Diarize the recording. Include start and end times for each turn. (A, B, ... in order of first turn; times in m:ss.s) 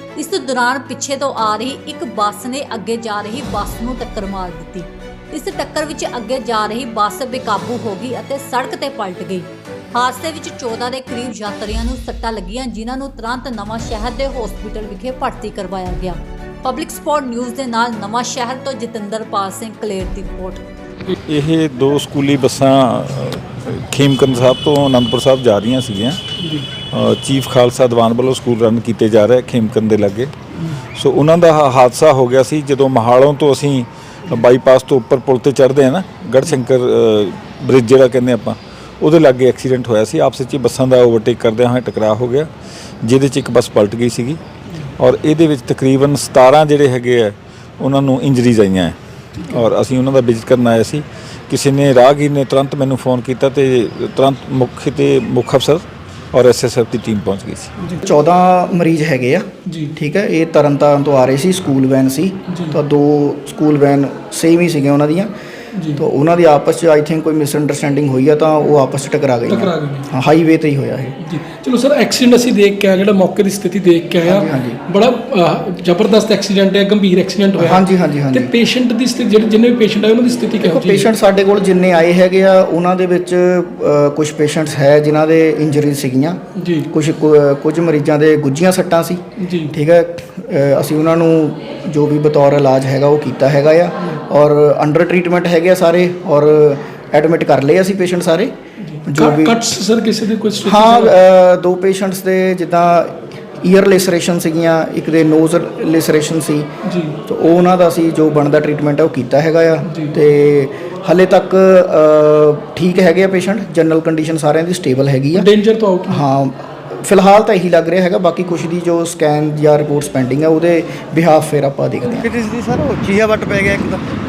0:00.2-0:20.6 A
0:21.3-0:26.2 B
0:26.4-0:26.7 C
0:26.9-0:30.3 B
0:31.0-0:42.5 B
0:43.0-0:44.4 B
0:45.0-0:57.7 B
0:58.0-1:05.3 D
0:59.7-0:59.9 C
1:02.5-1:02.8 C
1:05.8-1:06.0 C
1:06.0-1:11.2 D
1:09.5-1:10.1 C
1:11.2-1:21.1 C
1:14.2-1:14.8 D
1:17.6-1:18.5 D
1:20.6-1:26.4 D
1:26.6-1:26.9 C
1:26.9-1:38.5 D
1:29.4-1:29.7 C
1:38.8-1:41.1 C
1:39.1-1:39.6 D
1:40.6-1:46.7 D
1:46.8-1:47.2 C
1:47.3-1:55.5 D
1:49.9-1:50.1 C
1:55.3-1:56.2 C
1:56.1-2:02.3 D
2:02.1-2:04.1 E